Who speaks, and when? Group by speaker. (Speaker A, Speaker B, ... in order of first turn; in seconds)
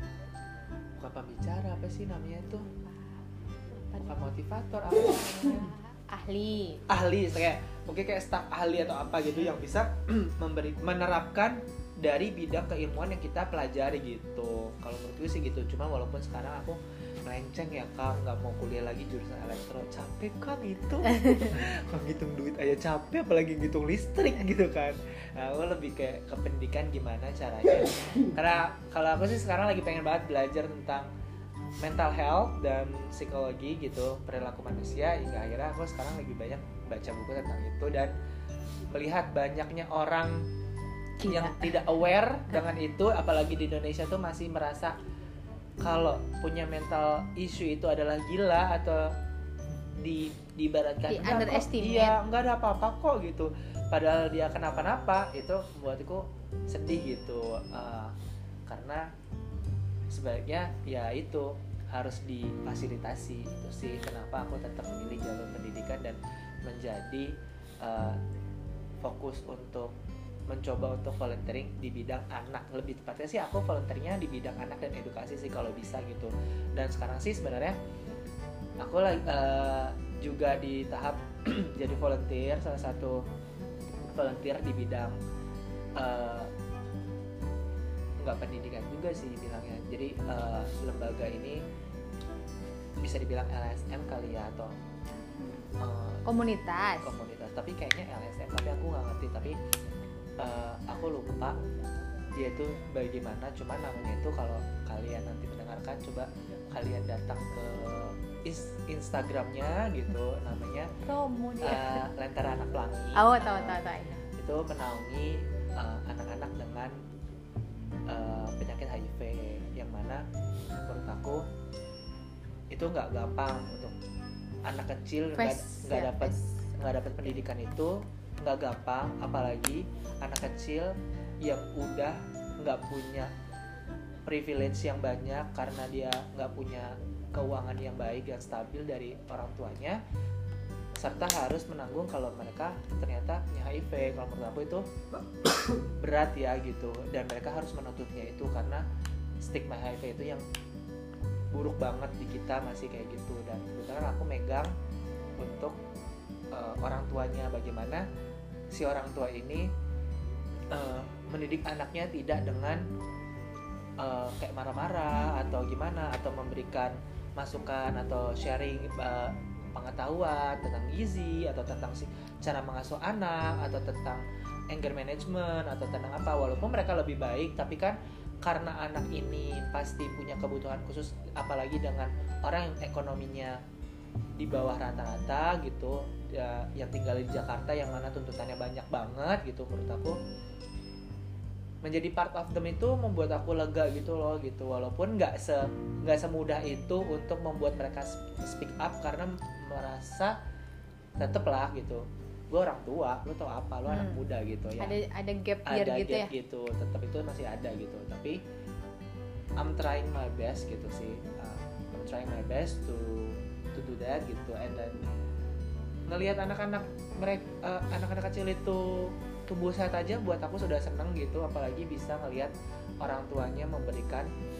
Speaker A: 1.0-2.7, 4.0-5.7, 6.9-31.1, 31.8-38.1, 38.9-40.5, 41.2-45.0, 45.8-49.1, 49.9-58.1, 58.7-59.1, 60.1-67.3, 67.8-68.2, 69.0-69.9, 70.5-77.8, 78.8-83.2, 84.1-85.2, 86.0-86.5, 88.2-91.6, 93.0-94.7, 95.8-96.2, 97.0-99.6, 100.4-101.6, 102.3-110.9, 111.6-113.8, 114.4-117.0, 118.1-120.2, 120.8-121.4, 122.7-123.9, 124.7-133.3, 134.3-140.0, 141.0-144.9, 145.7-148.8, 149.4-150.4, 151.5-154.7, 155.4-155.8, 156.5-158.1, 158.7-159.7, 160.7-162.8, 164.0-183.6, 184.4-190.2, 191.8-200.4, 201.2-205.0, 205.7-208.4, 209.6-215.0, 216.1-224.3
Speaker B: 2.6-4.2, 4.9-6.8, 41.2-41.8, 51.1-52.2, 95.3-95.6, 96.3-97.1, 111.0-112.0, 113.2-114.2, 125.4-126.4, 203.9-204.2, 204.8-206.3